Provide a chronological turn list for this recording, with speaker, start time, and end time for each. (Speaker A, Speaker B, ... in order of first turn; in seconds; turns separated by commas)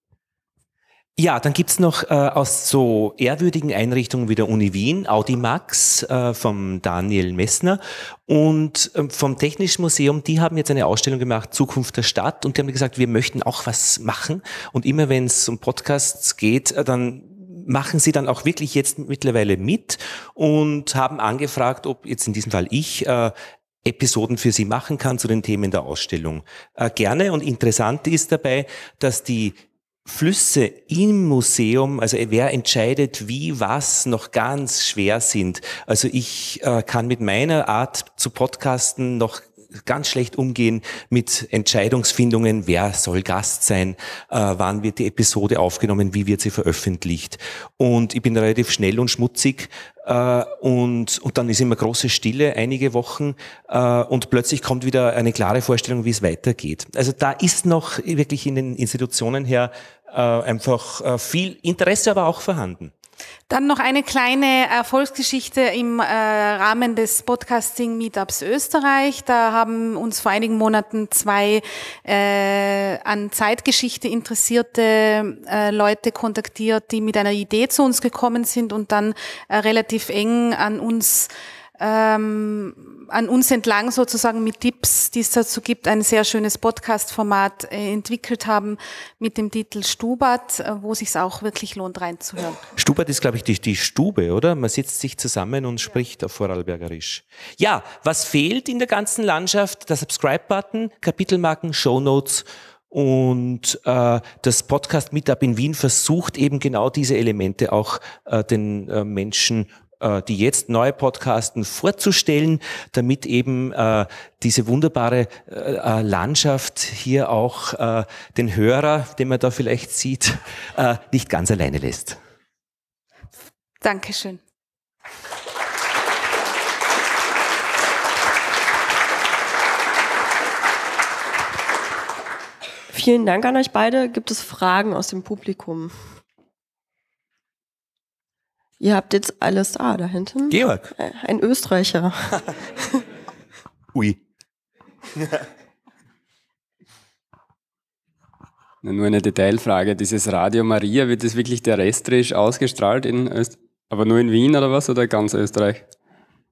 Speaker A: 1.2-62.9, Speaker B: 63.5-92.6, Speaker A: 92.8-122.2, Speaker B: 123.8-124.4, Speaker C: 132.9-136.1, Speaker C: 138.8-142.5, Speaker A: 140.5-140.9, Speaker A: 143.9-144.2, Speaker D: 148.8-155.9